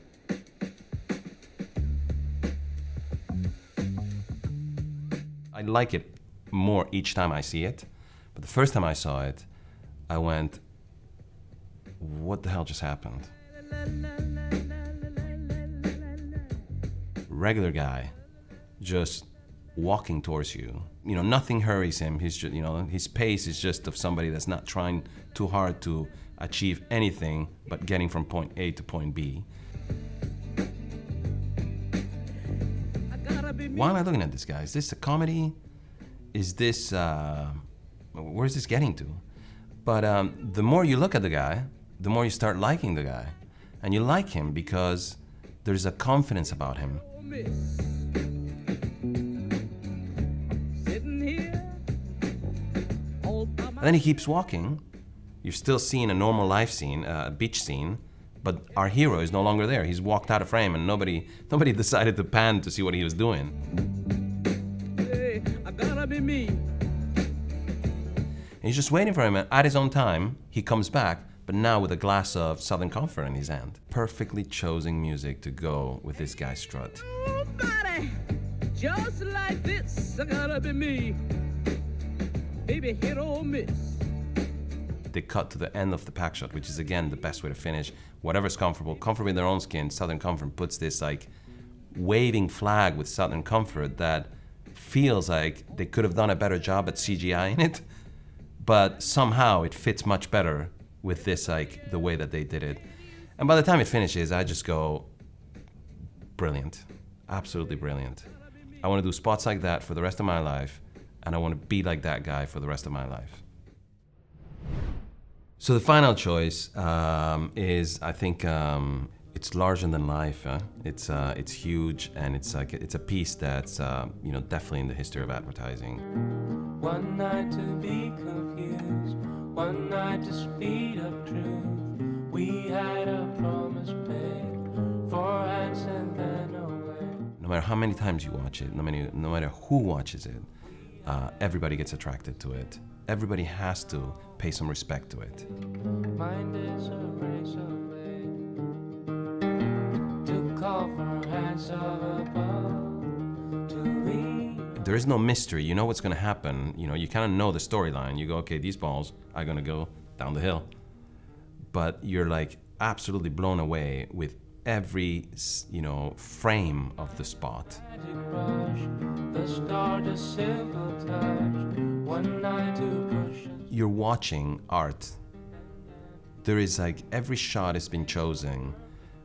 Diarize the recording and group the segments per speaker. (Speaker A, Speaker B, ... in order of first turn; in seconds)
Speaker A: 5.5-9.5, 10.1-10.6, 12.0-13.3, 17.3-18.1, 18.8-29.5, 33.6-35.6, 36.3-39.2, 39.8-47.2, 53.7-54.8, 55.4-63.6, 68.6-77.2, 85.1-91.3, 91.9-97.8, 98.6-105.1, 106.4-113.4, 115.6-126.1, 137.4-140.5, 141.1-145.5, 154.8-160.7, 161.7-167.8, 173.7-175.2, 176.4-178.8
Speaker B: 33.1-33.6, 47.2-48.0, 50.7-51.8, 53.2-53.7, 64.9-66.7, 77.2-81.4, 82.6-84.1
Speaker C: 126.8-137.2, 146.1-148.5, 150.1-154.8, 167.9-173.6